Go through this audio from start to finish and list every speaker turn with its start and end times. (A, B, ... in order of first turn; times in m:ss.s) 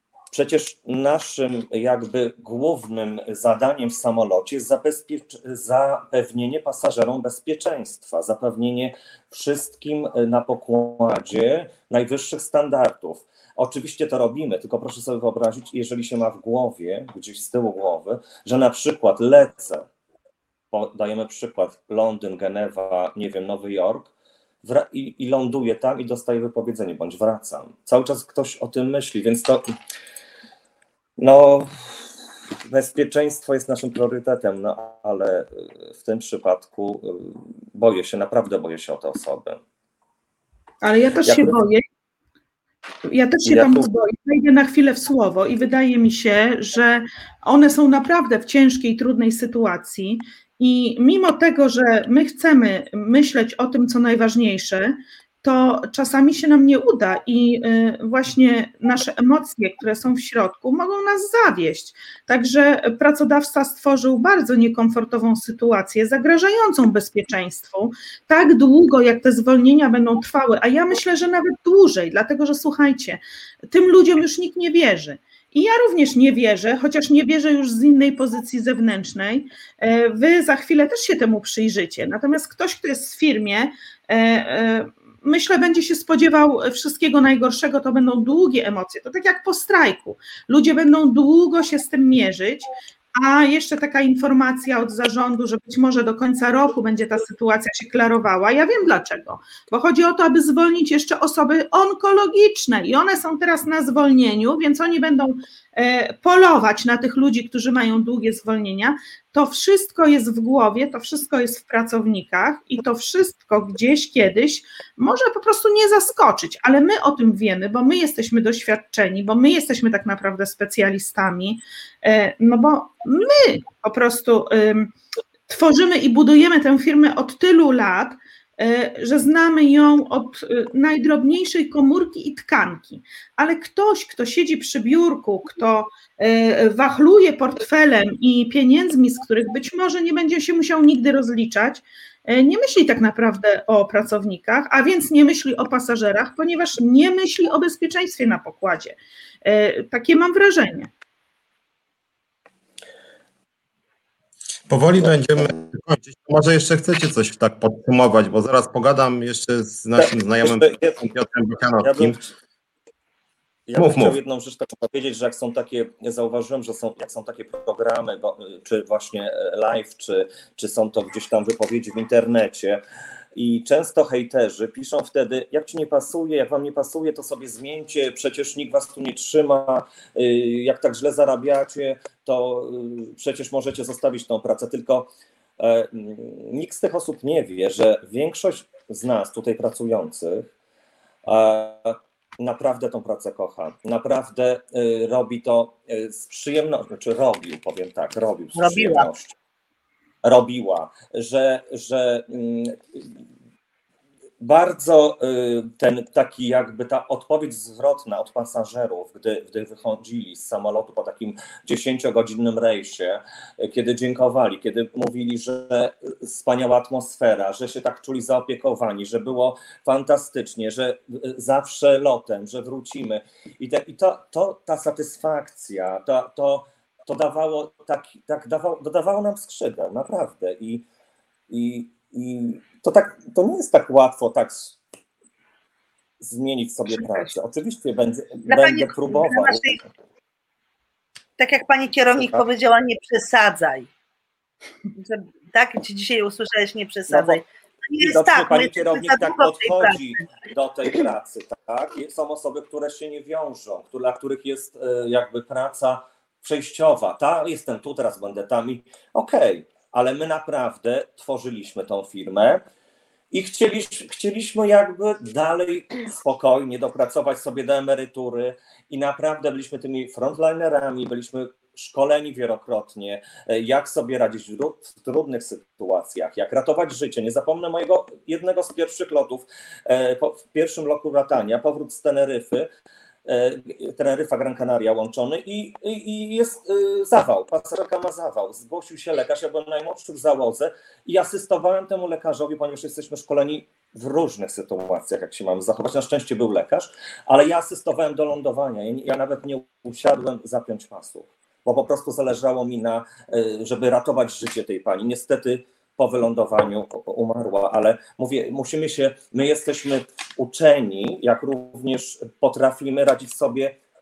0:00.3-0:19.9 A
0:20.7-0:24.1 A
0:24.6-0:29.7 A
0:31.2-0:32.0 A
0:32.7-0:39.6 A
0:40.8-0:41.8 B
0:41.2-0:41.5 A
0:43.1-2:04.9 B
0:43.5-0:43.9 A
2:05.5-2:30.9 B
2:34.7-2:42.2 C
2:40.0-2:41.0 A
2:41.8-2:42.3 A
2:43.7-2:52.8 A
2:43.8-2:44.2 C
2:53.4-3:10.5 A
3:11.2-3:19.4 A
3:18.6-3:19.1 D
3:20.2-3:23.1 A
3:24.4-3:50.8 A
3:51.5-3:54.8 A
3:56.2-3:59.8 A
3:56.9-3:57.3 D
3:58.5-3:59.8 D
4:01.4-4:03.9 D
4:02.2-4:02.4 A
4:04.9-4:10.0 D
4:07.1-4:07.4 A
4:08.0-4:22.6 A
4:23.3-4:42.7 A
4:43.3-5:13.8 A